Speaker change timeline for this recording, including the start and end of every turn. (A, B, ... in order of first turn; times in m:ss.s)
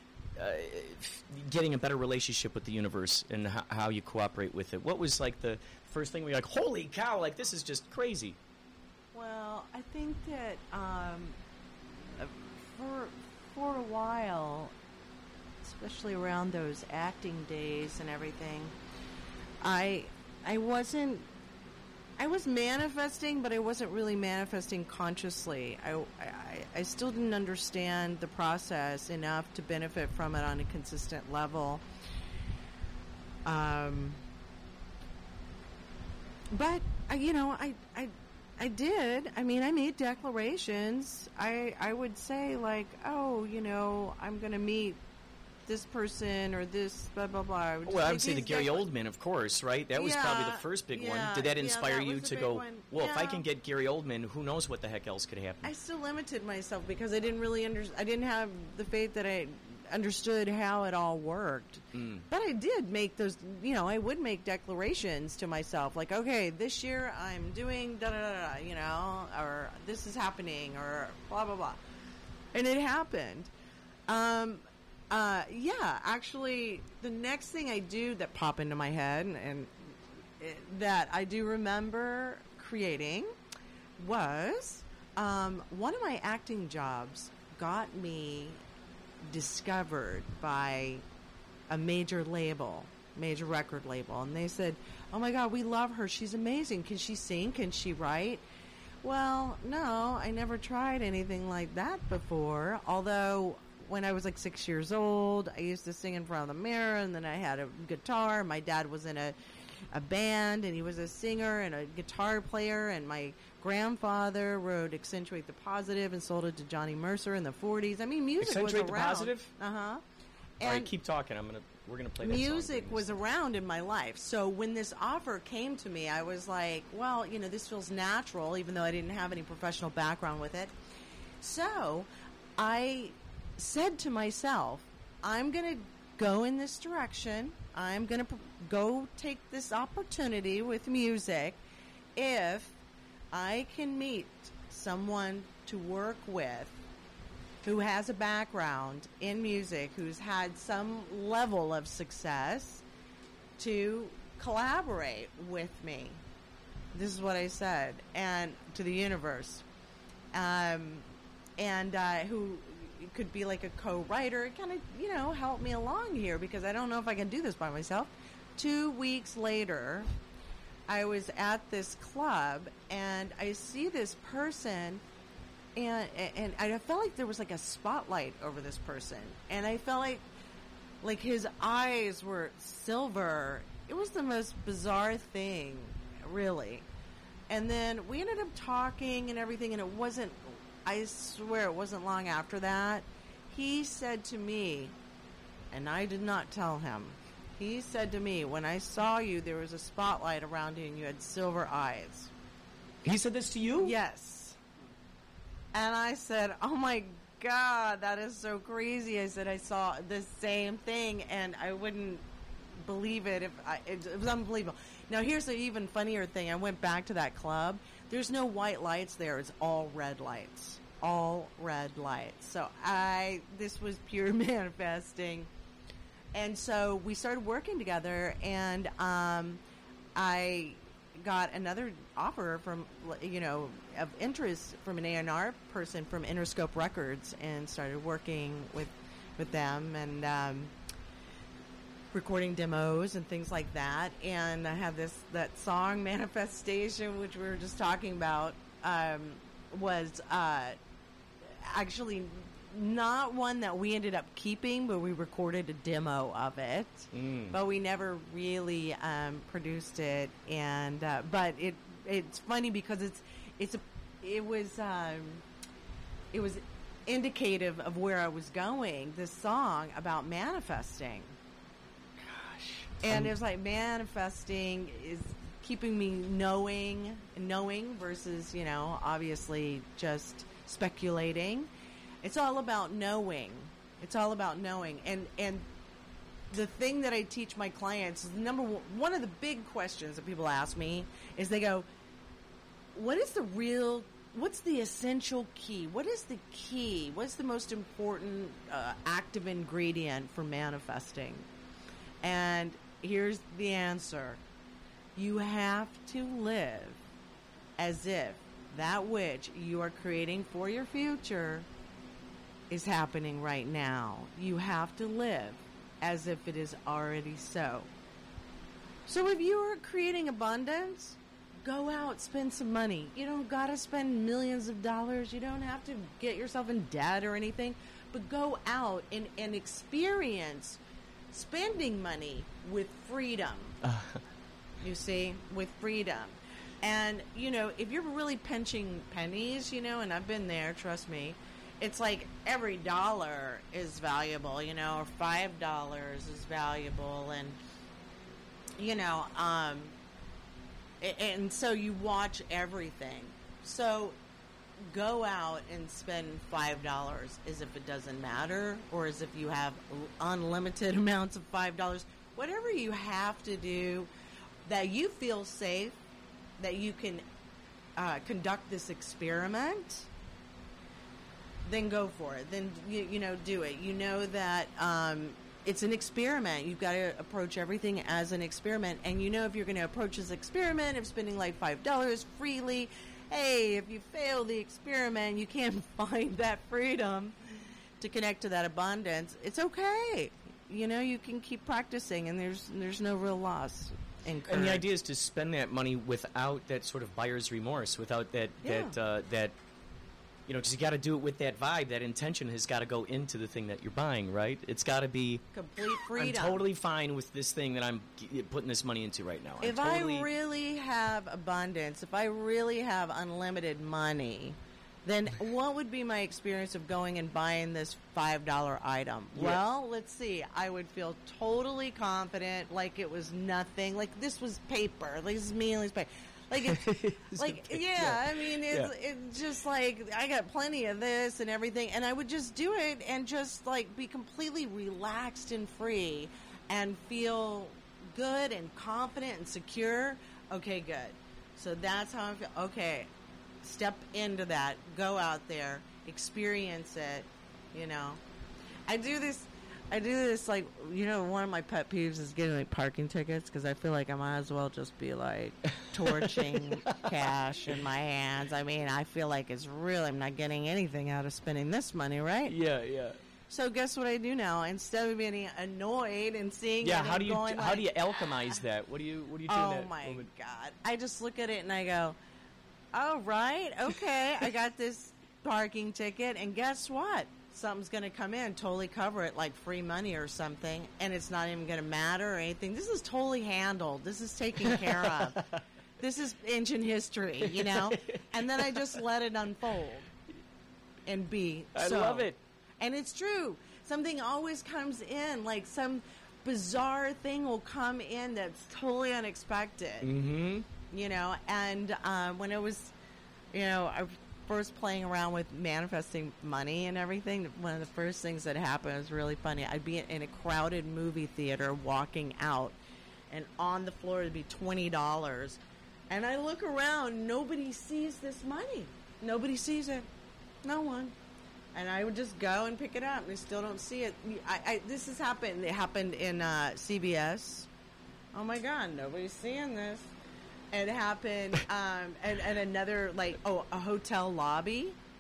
0:00.4-0:08.4 A
0:09.1-0:11.4 B
0:12.1-0:14.7 B
0:15.6-0:18.8 B
0:19.6-0:21.3 B
0:22.2-0:31.8 B
0:33.4-0:34.2 B
0:36.5-0:45.0 B
0:45.7-0:48.8 B
0:47.8-0:55.7 A
0:50.0-0:53.4 B
0:55.6-1:11.8 B
1:01.9-1:02.3 A
1:12.5-1:13.5 B
1:14.1-1:19.8 B
1:20.4-1:23.4 B
1:24.0-1:28.6 B
1:29.2-1:31.0 B
1:31.7-1:38.4 B
1:39.0-1:49.4 B
1:49.9-2:00.0 B
1:58.4-1:59.5 A
2:00.6-2:00.9 B
2:00.6-2:03.2 A
2:02.2-2:10.8 B
2:11.4-2:21.6 B
2:22.2-2:22.8 B
2:23.3-2:26.8 B
2:27.6-2:32.8 B
2:33.6-2:36.2 B
2:36.9-2:39.6 B
2:40.3-2:50.1 B
2:50.9-2:55.0 B
2:55.8-3:00.3 B
3:01.0-3:06.9 B
3:07.5-3:15.0 B
3:15.7-3:22.3 B
3:23.0-3:24.0 A
3:23.8-3:24.6 B
3:25.7-3:32.2 B
3:32.8-3:45.5 B
3:46.3-3:49.6 B
3:50.2-4:00.8 B
4:02.1-4:10.8 B
4:11.5-4:25.4 B
4:17.1-4:17.6 A
4:26.3-4:31.3 B
4:32.3-4:33.3 A
4:33.0-4:41.7 B
4:42.2-4:45.7 B
4:46.5-4:51.9 B
4:52.9-5:01.5 B
5:02.2-5:04.4 B
5:05.2-5:07.0 B
5:07.8-5:11.7 B
5:12.7-5:17.9 B
5:19.1-5:30.8 B
5:31.3-5:33.8 B
5:33.8-5:34.2 A
5:34.8-5:47.6 B
5:48.8-5:50.0 B
5:51.0-5:54.2 B
5:54.8-6:04.1 B
6:04.6-6:06.0 B
6:06.6-6:07.2 B
6:08.0-6:10.1 B
6:11.7-6:27.4 B
6:28.0-6:34.8 B
6:34.5-6:39.6 A
6:38.6-6:39.0 B
6:40.5-6:45.4 A
6:45.5-6:46.6 B
6:46.1-6:50.3 A
6:49.6-7:23.1 B
6:59.3-6:59.6 A
7:06.6-7:08.9 A
7:23.6-7:28.2 B
7:28.9-7:42.6 B
7:35.9-7:37.2 A
7:42.5-7:43.2 A
7:43.5-7:47.9 B
7:46.8-7:50.3 A
7:49.5-7:52.2 B
7:52.9-8:05.4 B
8:04.9-8:05.6 A
8:06.0-8:10.1 B
8:07.4-8:09.0 A
8:11.1-8:20.1 B
8:11.8-8:12.4 A
8:20.0-8:20.7 A
8:20.8-8:22.9 B
8:23.5-8:32.8 B
8:33.3-8:35.6 B
8:36.1-8:40.1 B
8:40.6-8:41.2 B
8:41.7-8:47.7 B
8:48.3-8:50.1 B
8:50.7-8:55.0 B